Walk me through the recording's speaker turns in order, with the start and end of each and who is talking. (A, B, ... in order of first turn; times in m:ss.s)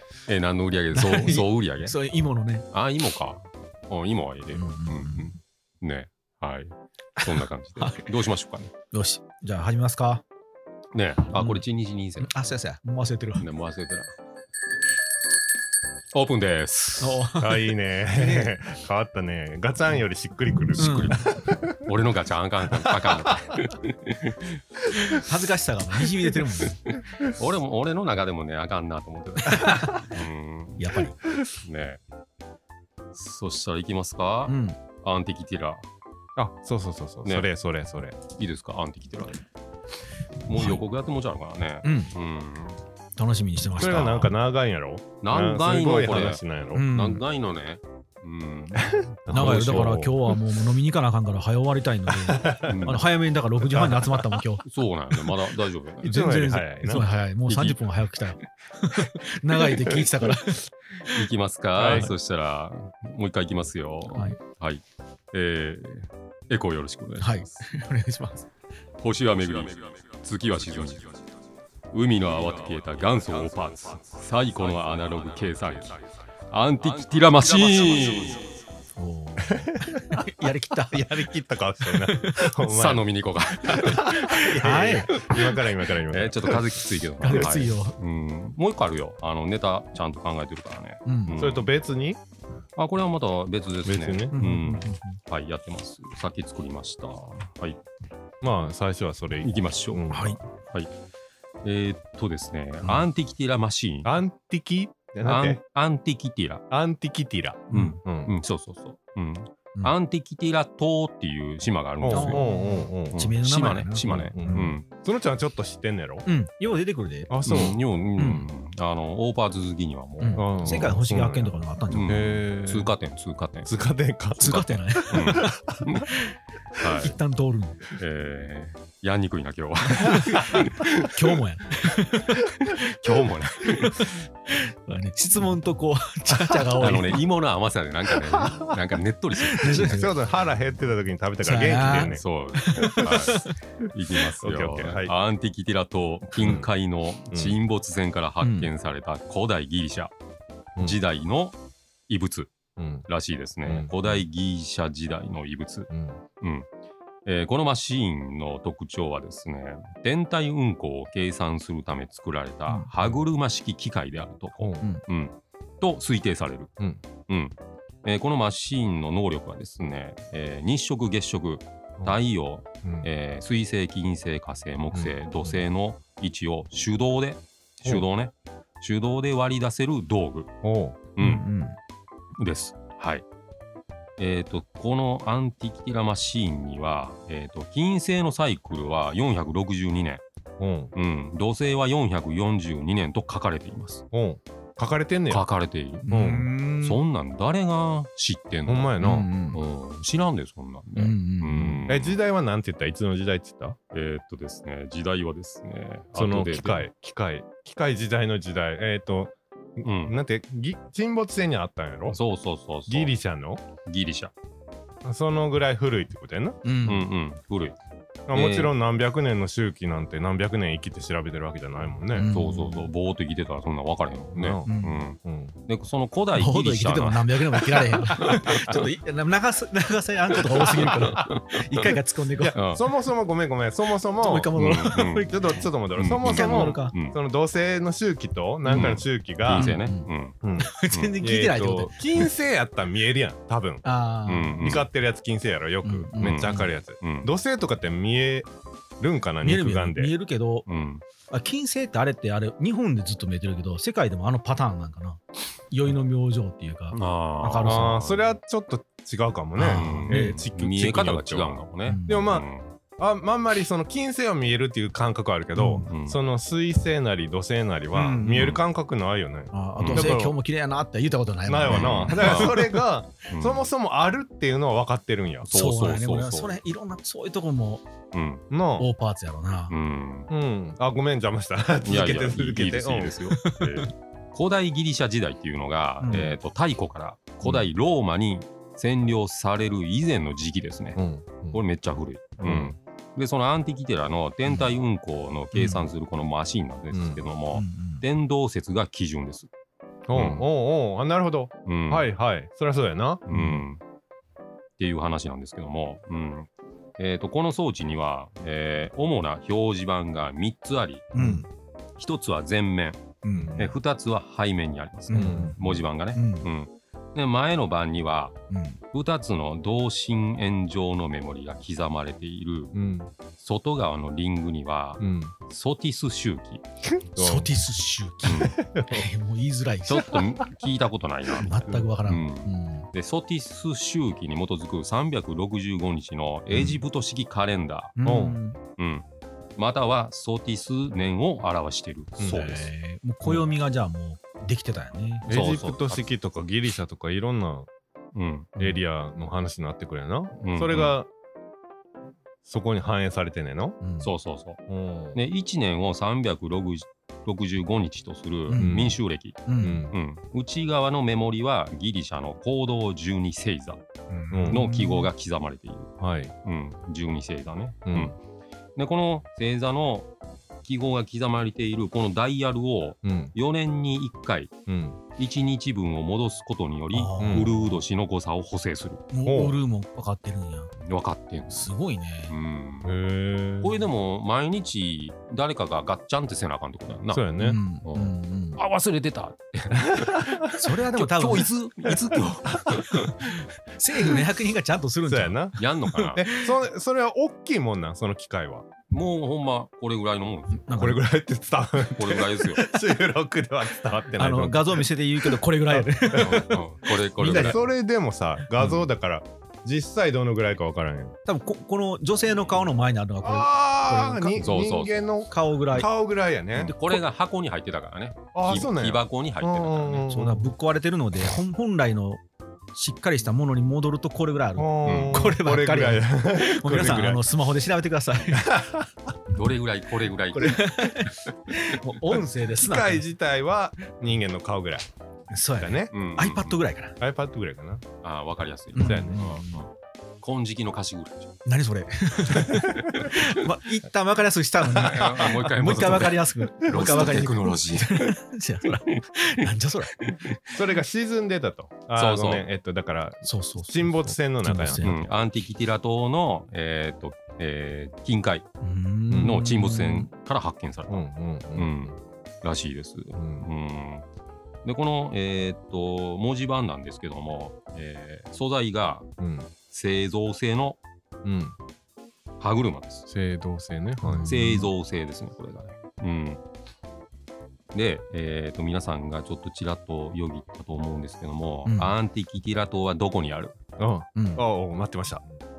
0:00.3-0:02.0 A
0:00.9-0:02.6 B
0:02.7-0:08.7 A
0:04.5-0:05.4 B
0:07.2-0:08.1 B
0:08.9-0:10.2 B
0:10.9-0:12.3 A
0:11.3-0:11.6 B
0:12.2-0:13.5 B
0:13.4-0:14.1 A
0:16.1-0:17.3 A
0:17.0-0:18.5 B
0:17.4-0:21.8 C
0:20.8-0:24.6 A
0:20.8-0:21.3 B
0:22.7-0:23.5 C
0:25.1-0:26.8 B
0:26.8-0:31.0 A
0:29.5-0:30.0 B
0:30.8-0:31.2 B
0:31.6-0:32.0 A
0:33.1-0:35.8 A
0:34.5-0:34.8 B
0:36.4-0:38.2 C
0:38.2-0:39.4 A
0:40.4-0:42.8 A
0:40.5-0:40.8 B
0:41.8-0:42.1 B
0:43.2-0:44.3 B
0:43.8-0:46.8 C
0:43.8-0:44.2 A
0:45.2-0:50.1 A
0:46.7-0:47.2 B
0:48.8-0:50.1 C
0:49.3-0:54.6 B
0:52.2-0:52.8 C
0:52.6-0:53.1 A
0:53.7-0:54.1 C
0:54.6-0:56.2 A
0:56.0-0:57.0 C
0:56.0-1:01.2 B
0:57.4-0:57.9 A
1:01.0-1:07.5 A
1:01.8-1:02.1 C
1:04.1-1:04.4 B
1:07.2-1:08.5 B
1:09.0-1:11.2 A
1:11.9-1:18.6 A
1:19.0-1:21.1 B
1:19.4-1:20.2 C
1:20.9-1:27.5 C
1:21.9-1:22.4 B
1:22.4-1:31.7 A
1:23.8-1:25.2 B
1:27.2-1:28.0 B
1:31.0-1:31.4 B
1:31.4-1:32.2 C
1:32.8-1:37.8 A
1:33.8-1:34.4 C
1:34.3-1:35.2 B
1:38.4-1:40.4 C
1:39.4-1:40.9 A
1:40.1-1:40.4 B
1:41.6-1:44.2 A
1:44.0-1:45.6 C
1:45.2-1:46.6 A
1:46.7-1:48.3 C
1:47.7-1:48.0 B
1:47.8-1:52.5 A
1:52.0-1:53.2 C
1:52.1-1:54.7 B
1:53.1-1:54.8 A
1:54.0-1:56.2 C
1:56.2-1:57.4 B
1:57.3-1:57.8 C
1:57.4-2:00.9 A
1:58.2-1:58.5 B
2:00.2-2:02.4 B
2:00.4-2:01.5 C
2:01.9-2:03.7 A
2:02.0-2:02.9 C
2:03.6-2:05.8 C
2:04.4-2:06.4 B
2:04.5-2:06.1 A
2:06.7-2:07.2 A
2:07.0-2:07.8 B
2:07.9-2:11.1 A
2:09.9-2:17.2 B
2:12.7-2:14.2 A
2:16.8-2:20.0 A
2:19.4-2:20.2 B
2:19.7-2:22.2 C
2:21.4-2:23.5 B
2:22.0-2:30.1 A
2:22.9-2:23.2 C
2:24.4-2:25.1 C
2:26.4-2:26.7 C
2:27.3-2:27.6 C
2:28.4-2:28.7 B
2:30.8-2:31.6 A
2:32.1-2:32.5 A
2:32.8-2:33.1 C
2:33.1-2:35.9 A
2:33.6-2:34.2 C
2:35.9-2:36.2 C
2:36.4-2:36.7 A
2:37.2-2:46.7 A
2:44.6-2:44.8 C
2:47.3-3:00.5 A
2:54.9-2:55.6 C
3:00.6-3:01.0 C
3:01.2-3:01.4 A
3:01.2-3:01.8 B
3:02.4-3:03.2 A
3:04.2-3:10.2 A
3:10.6-3:10.9 C
3:10.9-3:14.0 A
3:14.1-3:15.4 C
3:15.3-3:22.2 A
3:16.0-3:17.0 B
3:16.1-3:16.5 C
3:18.7-3:19.3 C
3:19.0-3:19.6 B
3:21.0-3:21.8 B
3:21.9-3:23.8 C
3:23.9-3:26.8 A
3:26.1-3:32.2 C
3:29.8-3:30.2 A
3:32.1-3:33.1 A
3:32.9-3:33.6 C
3:33.8-3:34.3 A
3:35.0-3:36.6 C
3:36.6-3:37.1 B
3:36.8-3:37.8 A
3:38.3-3:42.3 C
3:38.3-3:38.7 A
3:42.1-3:42.9 B
3:42.3-3:48.8 A
3:44.3-3:44.7 C
3:44.6-3:45.0 B
3:45.2-3:45.5 C
3:46.3-3:52.6 B
3:50.6-3:51.9 A
3:50.9-3:51.2 C
3:52.4-3:54.5 C
3:52.5-3:52.8 A
3:54.2-3:55.6 B
3:54.5-3:55.4 A
3:55.3-3:59.7 C
3:56.0-3:57.2 A
3:56.2-3:56.9 B
3:58.7-4:00.4 A
3:59.5-4:02.2 B
4:00.4-4:03.8 C
4:03.8-4:04.6 B
4:04.2-4:04.9 A
4:04.6-4:08.5 C
4:05.8-4:06.7 B
4:06.2-4:07.3 A
4:09.0-4:10.1 C
4:09.4-4:10.7 B
4:10.7-4:11.0 A
4:11.3-4:17.9 B
4:16.9-4:18.2 A
4:17.6-4:22.5 C
4:19.6-4:20.4 B
4:19.7-4:22.7 A
4:21.8-4:22.3 B
4:23.0-4:30.4 C
4:25.6-4:25.9 B
4:25.8-4:26.2 A
4:27.9-4:28.6 B
4:29.5-4:32.8 B
4:29.8-4:30.1 A
4:31.4-4:35.5 C
4:31.7-4:32.7 A
4:33.3-4:33.6 A
4:35.4-4:36.6 A
4:35.5-4:37.9 B
4:38.1-4:38.4 A
4:38.5-4:38.9 C
4:38.8-4:39.7 B
4:39.7-4:40.3 A
4:40.3-4:43.2 C
4:41.8-4:59.5 A
4:43.3-4:43.9 B
4:46.0-4:46.3 B
4:51.0-4:51.6 C
4:52.4-4:52.7 C
4:55.5-4:55.9 B
4:56.9-4:57.2 C
4:57.5-4:58.0 B
5:00.1-5:03.2 C
5:00.1-5:00.4 A
5:01.6-5:02.0 A
5:03.3-5:03.8 A
5:03.3-5:03.6 B
5:04.8-5:11.4 A
5:11.1-5:11.5 B
5:12.0-5:13.0 A
5:13.2-5:13.7 B
5:13.3-5:13.6 C
5:13.6-5:18.4 A
5:15.1-5:15.6 B
5:15.1-5:15.8 C
5:16.1-5:16.5 B
5:18.5-5:18.8 B
5:18.9-5:22.7 A
5:22.7-5:23.1 C
5:23.4-5:26.6 A
5:25.0-5:25.3 C
5:26.8-5:27.5 C
5:27.2-5:30.2 B
5:28.2-5:28.6 A
5:28.4-5:29.1 C
5:29.9-5:38.0 A
5:31.4-5:32.9 B
5:38.0-5:38.6 B
5:38.0-5:38.4 C
5:38.8-5:39.0 A
5:39.6-5:42.7 A
5:42.2-5:42.4 C
5:42.2-5:45.3 B
5:45.3-5:47.7 C
5:45.3-5:46.0 A
5:48.1-5:48.5 A
5:48.6-5:51.1 C
5:50.4-5:50.9 A
5:52.4-5:53.8 C
5:53.8-5:54.1 B
5:54.0-5:54.6 A
5:54.7-5:55.2 C
5:55.1-6:03.8 A
5:58.5-5:59.9 B
5:58.5-5:59.0 C
5:59.6-5:59.9 C
6:04.1-6:05.1 B
6:04.3-6:04.6 C
6:04.5-6:05.9 A
6:06.0-6:06.3 C
6:06.4-6:08.2 A
6:07.9-6:08.1 C
6:08.8-6:10.1 A
6:10.6-6:14.5 A
6:13.0-6:13.3 C
6:14.7-6:15.0 C
6:15.2-6:19.0 A
6:16.9-6:17.8 B
6:17.2-6:17.5 C
6:19.1-6:20.7 B
6:19.2-6:19.6 C
6:20.8-6:21.7 A
6:21.5-6:22.3 B
6:22.3-6:22.9 A
6:22.8-6:23.8 C
6:23.6-6:27.3 A
6:27.1-6:27.6 C
6:27.4-6:28.6 B
6:27.8-6:33.3 A
6:29.8-6:30.5 C
6:30.5-6:31.5 B
6:32.5-6:32.8 C
6:32.9-6:36.5 B
6:35.0-6:38.7 C
6:35.6-6:36.2 A
6:38.9-6:40.7 A
6:40.5-6:41.0 B
6:40.7-6:46.6 C
6:41.9-6:42.6 A
6:44.2-6:46.6 B
6:46.1-6:47.6 A
6:47.2-6:51.1 C
6:47.2-6:47.5 B
6:51.2-6:54.5 B
6:53.2-6:56.7 C
6:54.4-6:55.1 A
6:55.3-6:55.9 B
6:56.6-7:00.1 A
6:56.6-6:57.0 B
6:58.3-7:00.5 C
7:00.0-7:02.2 B
7:02.7-7:08.6 B
7:04.6-7:07.2 C
7:04.8-7:05.3 A
7:08.3-7:08.9 C
7:09.3-7:11.1 A
7:10.3-7:13.0 B
7:12.6-7:14.8 C
7:15.3-7:17.0 B
7:15.6-7:15.9 C
7:15.9-7:16.6 A
7:17.0-7:17.8 C
7:18.0-7:19.7 A
7:18.7-7:19.6 B
7:18.8-7:19.2 C
7:20.2-7:21.3 A
7:21.4-7:29.9 B
7:22.8-7:23.3 A
7:24.7-7:28.2 A
7:25.2-7:25.9 C
7:28.7-7:29.0 A
7:30.0-7:30.6 A
7:30.5-7:34.8 C
7:32.0-7:32.4 A
7:33.2-7:35.0 B
7:34.8-7:38.5 A
7:38.6-7:40.1 B
7:39.1-7:39.4 C
7:39.2-7:44.0 A
7:40.9-7:41.8 C
7:43.2-7:43.5 C
7:44.6-7:49.1 A
7:49.2-7:49.5 C
7:49.7-7:50.8 A
7:51.2-7:51.6 C
7:52.4-7:53.1 A
7:53.1-7:54.3 C
7:54.0-7:54.7 B
7:54.2-7:56.4 A
7:57.7-8:03.6 A
8:01.6-8:01.9 B
8:03.8-8:05.3 C
8:04.1-8:04.4 B